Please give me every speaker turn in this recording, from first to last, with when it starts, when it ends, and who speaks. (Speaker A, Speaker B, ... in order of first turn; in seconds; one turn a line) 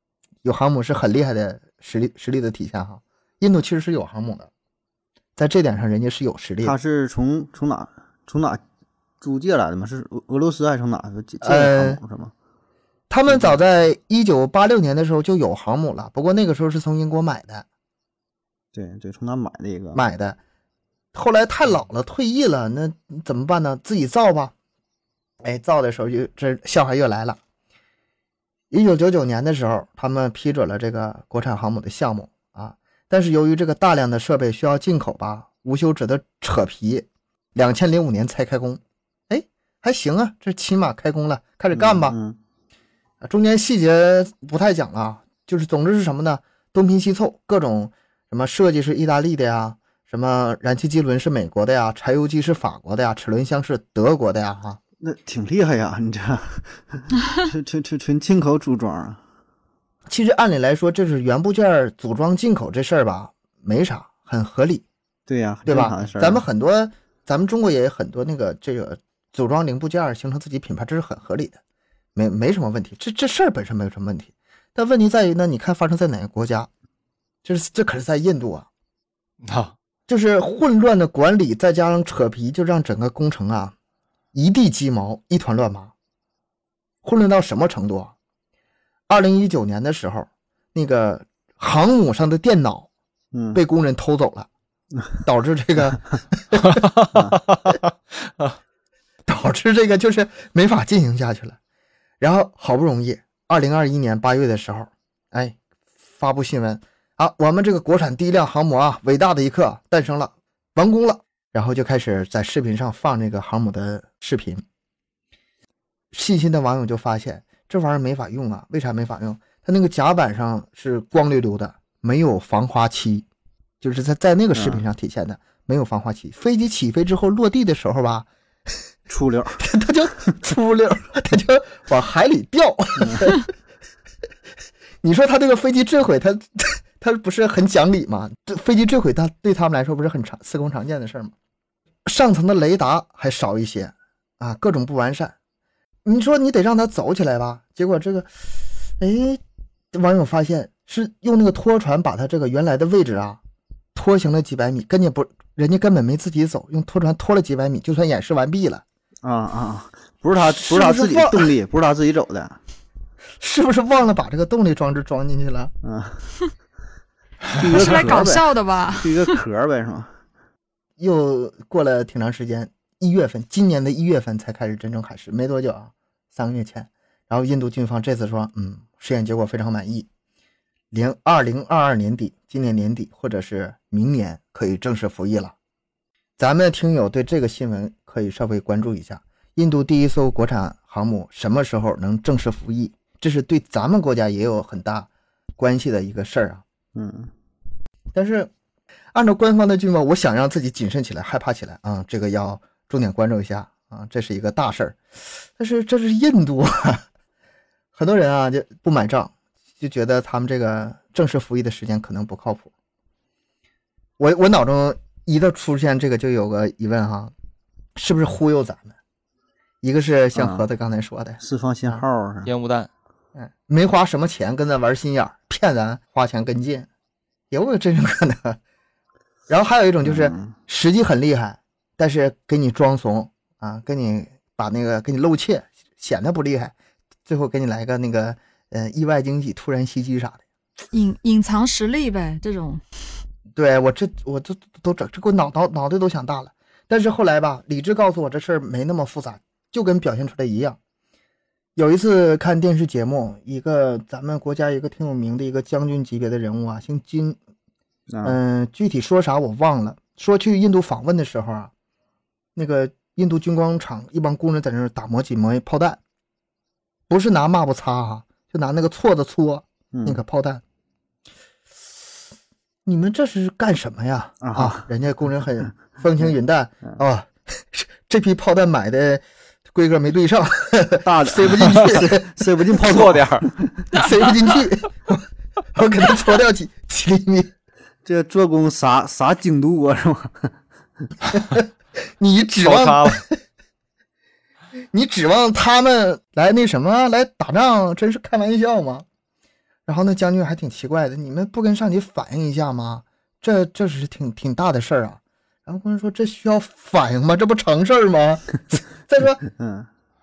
Speaker A: 0.4-4.5
Speaker A: 5.3-6.8
Speaker B: 6.6-8.6
Speaker B: 9.2-12.3
Speaker A: 11.4-12.0
Speaker A: 13.1-17.6
Speaker B: 13.3-13.6
Speaker B: 18.7-20.0
Speaker A: 19.9-20.4
Speaker A: 21.1-24.5
Speaker A: 25.4-27.4
Speaker A: 28.7-42.2
Speaker B: 41.7-42.4
Speaker A: 43.2-54.8
Speaker B: 55.0-59.2
Speaker A: 60.1-64.8
Speaker B: 65.3-66.4
Speaker A: 65.7-71.6
Speaker A: 72.1-76.7
Speaker A: 77.4-78.7
Speaker C: 79.4-79.7
Speaker A: 80.1-83.7
Speaker A: 84.3-85.9
Speaker A: 87.0-88.1
Speaker A: 89.1-92.9
Speaker B: 93.3-93.6
Speaker A: 93.5-94.5
Speaker A: 95.2-96.8
Speaker C: 96.7-97.2
Speaker B: 97.1-97.4
Speaker A: 99.2-101.6
Speaker A: 102.2-105.6
Speaker A: 106.1-114.6
Speaker A: 116.1-123.2
Speaker A: 123.8-128.3
Speaker B: 124.5-124.8
Speaker B: 129.1-129.6
Speaker A: 129.6-133.4
Speaker B: 133.0-133.3
Speaker A: 135.0-141.3
Speaker A: 142.0-145.3
Speaker A: 146.0-148.3
Speaker A: 149.0-149.4
Speaker A: 149.9-153.4
Speaker A: 153.9-158.8
Speaker B: 159.2-162.6
Speaker A: 160.4-161.6
Speaker A: 163.4-165.7
Speaker B: 165.8-166.2
Speaker B: 167.5-170.1
Speaker D: 167.7-169.3
Speaker A: 171.0-180.1
Speaker A: 180.9-185.5
Speaker A: 186.4-196.6
Speaker B: 196.9-197.3
Speaker A: 198.1-198.5
Speaker A: 199.1-207.0
Speaker A: 207.9-212.7
Speaker A: 214.2-217.3
Speaker A: 217.9-218.9
Speaker A: 219.8-222.0
Speaker B: 220.3-220.6
Speaker B: 221.4-222.5
Speaker C: 222.4-222.9
Speaker A: 223.3-226.9
Speaker A: 227.5-228.6
Speaker A: 229.5-236.7
Speaker B: 230.0-230.5
Speaker A: 237.2-240.4
Speaker D: 240.9-242.8
Speaker A: 243.5-250.8
Speaker A: 251.8-257.4
Speaker B: 258.1-258.4
Speaker A: 258.2-261.7
Speaker A: 262.6-266.0
Speaker A: 267.1-270.6
Speaker B: 269.9-270.2
Speaker A: 272.8-282.4
Speaker B: 274.4-274.9
Speaker B: 281.0-283.8
Speaker C: 282.8-283.5
Speaker A: 283.9-287.5
Speaker B: 288.0-290.5
Speaker A: 292.2-293.4
Speaker C: 292.6-293.2
Speaker A: 294.9-299.1
Speaker A: 299.9-309.4
Speaker B: 309.6-309.9